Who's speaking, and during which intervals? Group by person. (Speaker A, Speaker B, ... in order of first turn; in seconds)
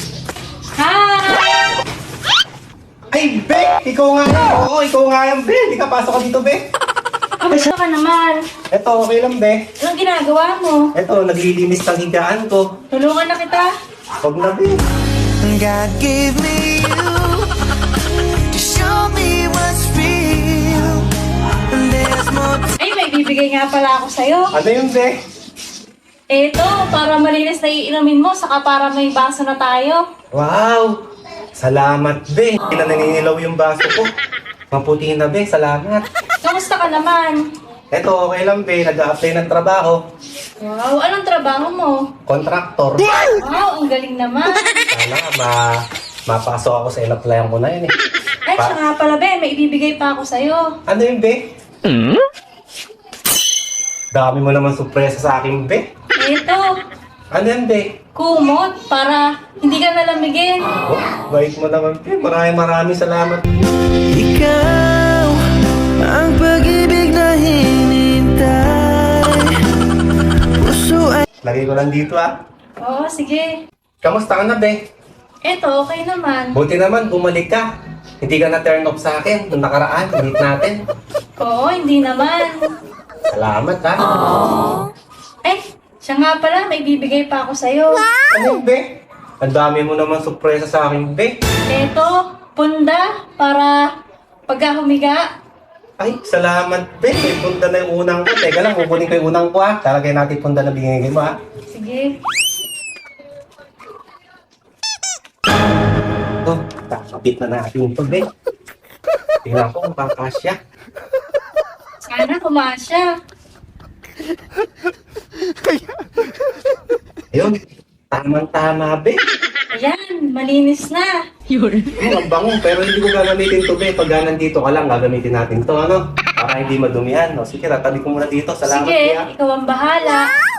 Speaker A: 0.8-1.6, 7.4-8.4, 9.8-10.9, 12.9-13.7, 22.8-24.5, 26.3-30.0, 36.4-37.4, 40.6-42.0, 43.3-44.8, 48.5-50.7, 56.2-56.7, 58.1-60.6, 72.8-73.5, 75.4-76.5, 81.4-82.6, 85.4-88.0, 91.7-93.9, 94.5-95.2, 101.7-102.1, 112.0-113.1, 119.7-121.2, 128.6-130.3
Speaker B: 3.1-6.6, 8.7-9.6, 10.9-12.6, 14.2-14.8, 24.5-25.1, 30.3-30.9, 31.6-34.1, 34.7-36.0, 37.9-40.0, 42.3-43.1, 44.9-47.9, 50.9-51.4, 54.1-55.8, 57.3-57.9, 60.8-63.5, 71.4-72.4, 74.0-74.8, 76.5-77.7, 78.2-80.8, 83.3-84.1, 88.3-88.8, 89.4-91.3, 96.0-101.3, 106.4-108.3, 109.4-110.6, 118.1-119.2, 122.0-129.3
Speaker C: 15.4-17.5, 18.5-21.1, 21.7-22.7, 64.1-65.4, 66.0-69.5, 70.6-71.2, 121.5-121.9